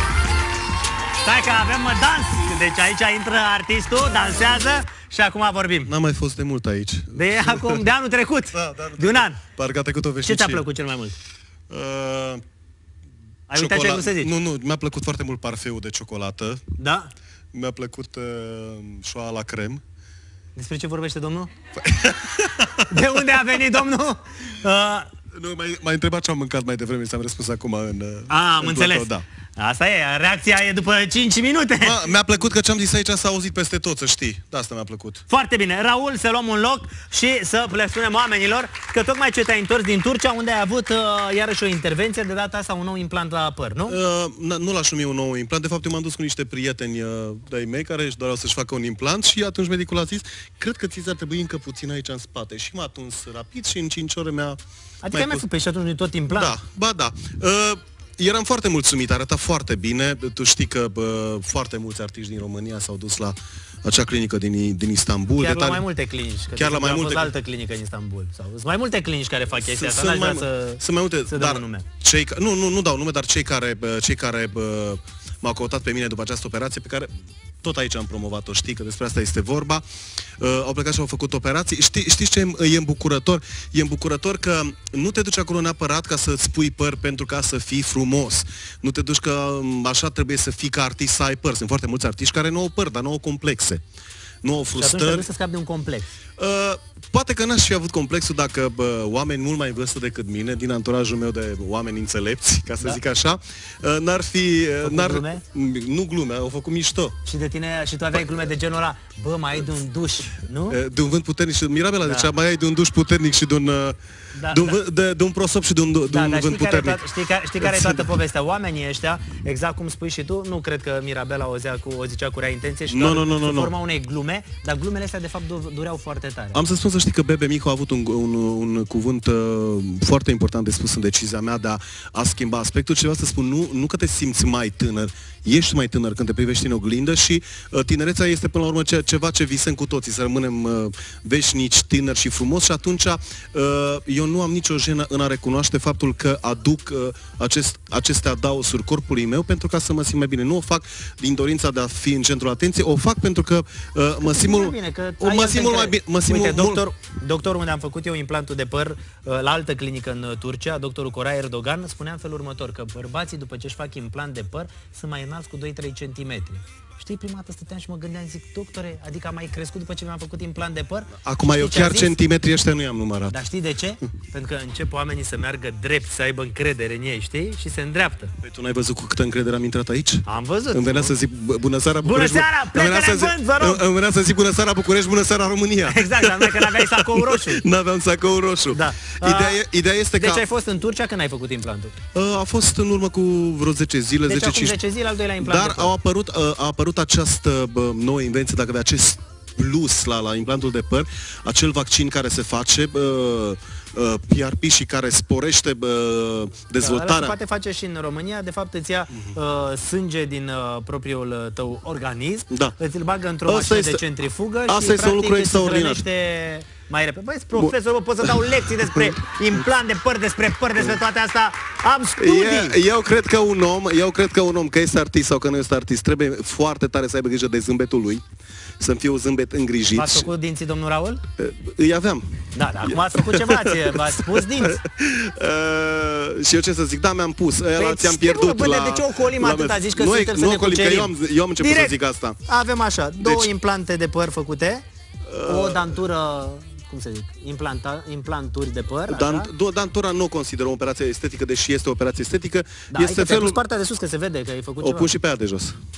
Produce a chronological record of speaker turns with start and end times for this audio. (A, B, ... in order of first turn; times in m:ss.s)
0:01.2-0:05.9 A
0:05.9-0:07.8 B
0:07.2-0:09.4 A
0:08.5-0:10.6 B
0:10.2-0:11.2 A
0:11.7-0:12.4 B
0:13.5-0:14.3 A
0:13.5-0:16.6 B
0:16.8-0:17.1 A
0:17.5-0:19.8 B
0:20.6-0:21.5 A
0:21.8-0:23.4 B
0:22.9-0:25.1 A
0:25.3-0:29.2 B
0:28.3-0:32.0 A
0:31.8-0:35.2 B
0:35.3-0:44.0 A
0:43.9-0:54.6 B
0:55.0-0:56.5 A
0:55.1-0:55.4 B
0:56.3-1:05.8 B
1:05.4-1:11.9 A
1:06.6-1:07.3 B
1:09.6-1:17.1 B
1:17.6-1:19.8 B
1:20.4-1:33.8 B
1:34.4-1:35.3 B
1:34.8-1:36.1 A
1:36.4-1:47.2 B
1:44.8-1:45.4 A
1:47.2-1:50.8 A
1:48.1-1:48.5 B
1:50.7-1:54.0 B
1:52.0-1:52.3 A
1:54.3-1:54.8 A
1:54.5-1:57.0 B
1:56.1-2:06.6 A
1:57.6-1:58.1 B
2:02.9-2:03.7 B
2:06.5-2:36.8 B
2:34.2-2:52.2 A
2:51.2-2:53.4 B
2:53.3-2:58.3 A
2:58.4-3:10.4 B
3:00.2-3:01.1 A
3:02.0-3:03.8 A
3:05.9-3:07.6 A
3:08.7-3:09.6 A
3:10.2-3:11.9 A
3:12.1-3:14.8 B
3:14.3-3:15.9 A
3:15.4-3:27.4 B
3:26.8-3:42.8 A
3:33.5-3:34.0 B
3:34.7-3:36.0 B
3:37.5-3:39.2 B
3:42.2-3:48.2 B
3:48.8-3:50.3 B
3:49.9-3:51.2 A
3:51.4-4:02.4 B
3:52.5-3:54.8 A
3:57.8-4:01.9 A
4:02.4-4:04.8 A
4:03.2-4:03.5 B
4:05.3-4:06.0 B
4:05.4-4:09.5 A
4:09.1-4:13.6 B
4:12.9-4:15.1 A
4:14.8-4:15.8 B